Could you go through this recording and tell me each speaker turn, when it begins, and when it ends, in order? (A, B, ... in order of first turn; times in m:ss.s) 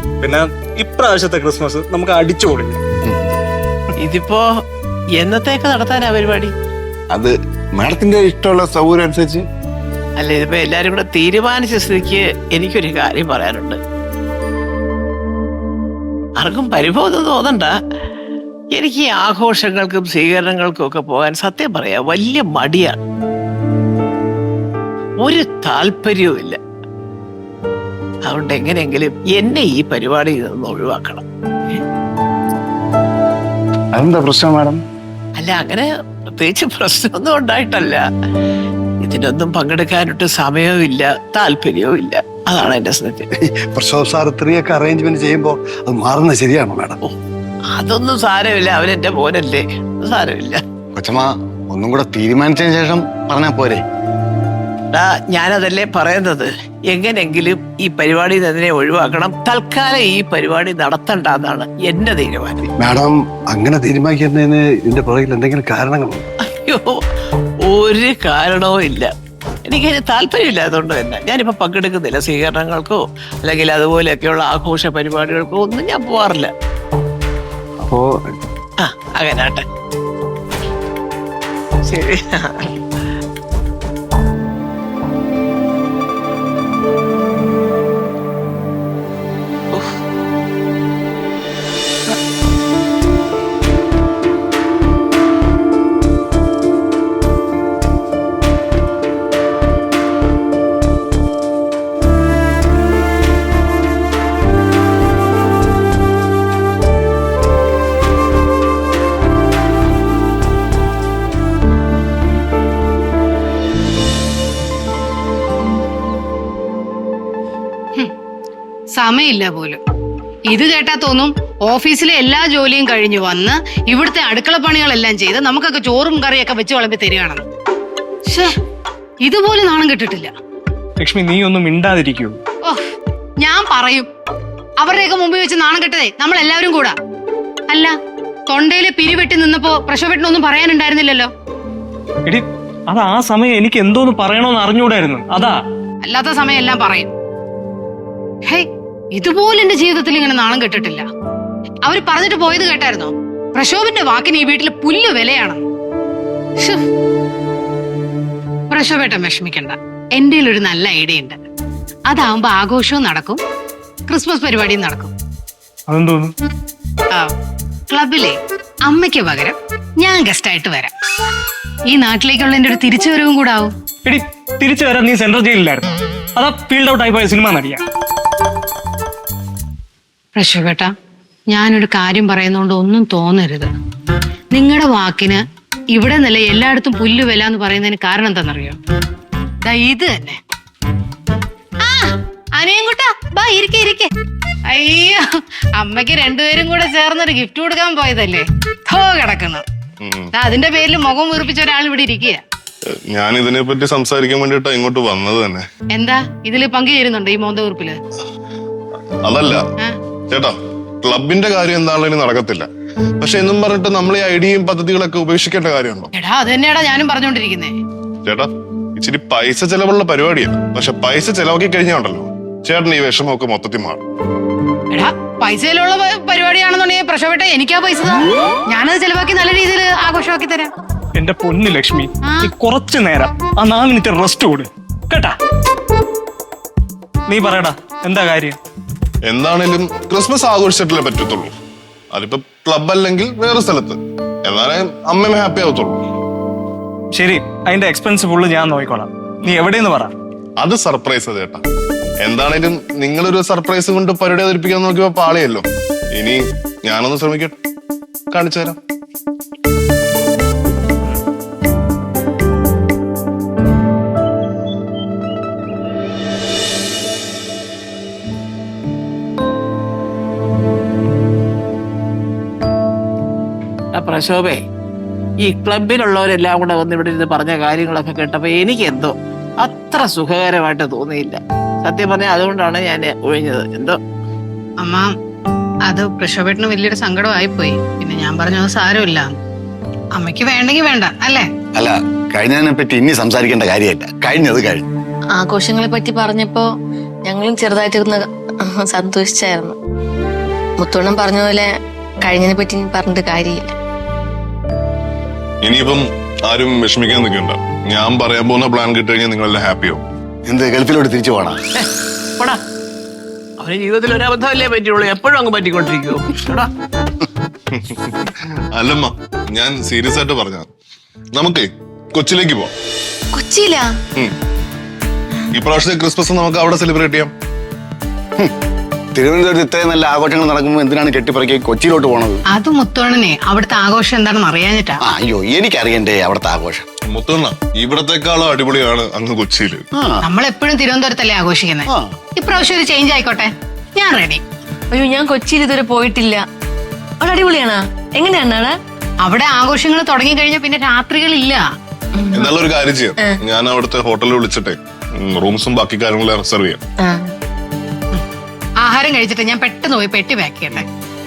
0:00.2-0:02.8 A
0:03.1-0:03.3 B
0:04.0-0:04.5 C
0:05.2-0:06.5 C
0:07.1-0:09.5 B
0:10.2-0:13.8 C
0:16.4-0:17.7 C
0:18.7-0:23.0 C
0:25.2-0:26.6 C
0:28.2-0:31.2 C
0:34.0-0:34.8 D
0:35.4-0:38.0 C
0:39.0-0:43.3 C
0:43.4-0:47.0 D
0:47.7-0:50.6 C
0:51.0-0:53.8 B
0:54.9-1:02.7 C
1:02.8-1:06.2 D
1:06.4-1:07.0 C
1:07.6-1:09.1 C
1:09.7-1:16.5 C
1:18.8-1:19.6 C
1:21.8-1:22.8 C
1:59.0-1:59.8 E
2:00.5-2:07.4 E
2:08.3-2:08.6 E
2:09.2-2:10.3 E
2:11.0-2:12.4 A
2:13.4-2:14.1 E
2:14.8-2:17.0 E
2:17.7-2:18.0 E
2:18.5-2:21.3 E
2:22.3-2:25.6 A
2:26.0-2:27.1 E
2:28.5-2:31.1 E
2:31.8-2:35.6 E
2:36.6-2:36.8 E
2:38.7-2:41.4 E
2:42.1-2:43.4 E
2:44.1-2:45.1 E
2:45.9-2:46.3 A
2:47.9-2:50.9 E
2:51.9-2:53.7 E
2:54.0-2:57.8 A
3:00.4-3:00.9 E
3:01.5-3:03.7 E
3:04.5-3:05.4 E
3:05.9-3:08.8 E
3:09.6-3:10.4 E
3:11.8-3:14.1 E
3:14.7-3:19.6 E
3:20.0-3:20.3 F
3:20.3-3:22.4 E
3:22.9-3:25.6 F
3:25.9-3:28.0 E
3:29.2-3:29.6 F
3:30.3-3:32.7 F
3:33.2-3:36.1 F
3:36.1-3:37.8 E
3:38.2-3:44.0 F
3:44.9-3:50.7 E
3:51.2-3:55.4 A
3:52.2-3:52.5 E
3:57.3-3:58.6 A
3:59.3-4:01.5 F
4:02.1-4:06.0 F
4:07.2-4:10.1 A
4:10.6-4:11.6 F
4:12.2-4:17.5 F
4:18.3-4:18.8 F
4:34.0-4:34.6 C
4:35.4-4:44.0 C
4:44.8-4:45.1 E
4:45.9-4:49.3 E
4:50.1-4:51.5 E
4:51.8-4:54.9 B
4:55.4-4:56.7 G
4:57.3-4:59.8 G
5:00.8-5:01.7 G
5:02.2-5:03.7 G
5:05.6-5:10.0 F
5:10.5-5:11.6 B
5:11.8-5:12.6 C
5:13.6-5:16.7 C
5:17.7-5:20.7 F
5:21.4-5:22.7 F
5:23.3-5:23.9 G
5:25.5-5:27.3 F
5:29.1-5:32.4 B
5:32.5-5:35.0 E
5:35.0-5:36.8 B
5:37.1-5:39.8 F
5:39.9-5:40.2 B
5:40.2-5:44.4 E
5:41.9-5:42.1 B
5:44.9-5:46.4 G
5:47.2-5:48.8 G
5:49.2-5:51.6 E
5:52.1-5:52.5 G
5:52.3-5:56.8 F
5:57.0-5:57.3 G
5:58.8-6:00.9 E